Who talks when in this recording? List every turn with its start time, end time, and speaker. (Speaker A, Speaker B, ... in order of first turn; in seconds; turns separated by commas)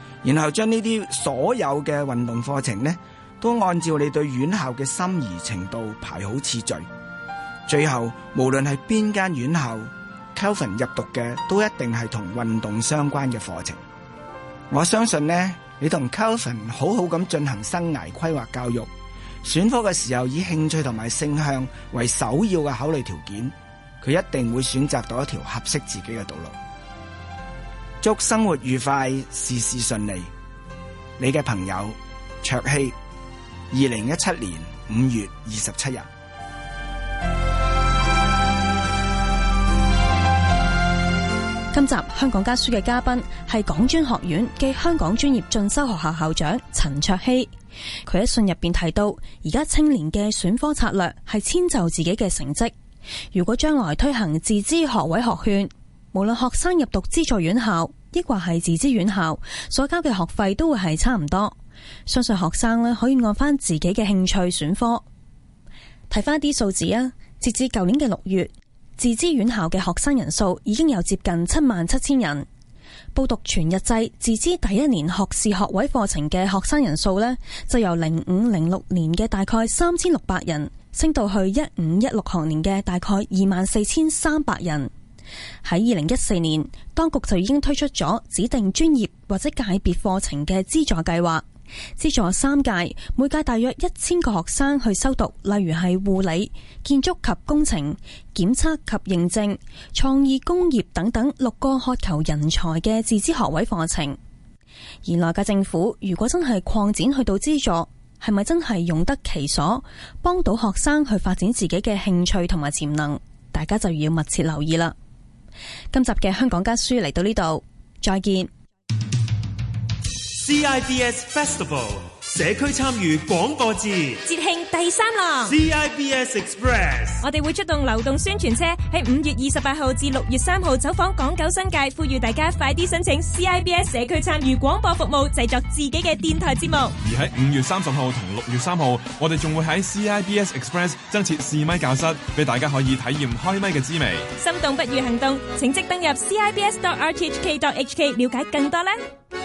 Speaker A: 0.2-6.9, Speaker A: 7.7-13.8, Speaker A: 14.7-18.9, Speaker A: 19.4-26.6, Speaker A: 28.0-30.3, Speaker A: 31.2-33.0, Speaker A: 33.7-36.1, Speaker B: 41.7-47.5, Speaker B: 48.1-52.7, Speaker B: 53.3-65.0, Speaker B: 66.1-72.5, Speaker B: 73.1-84.9, Speaker B: 85.6-91.4, Speaker B: 92.0-104.2, Speaker B: 105.0-115.0, Speaker B: 115.9-118.5, Speaker C: 120.4-124.2, Speaker D: 124.2-125.5, Speaker C: 125.5-127.2, Speaker D: 127.2-136.9, Speaker E: 137.0-144.3, Speaker D: 144.4-148.9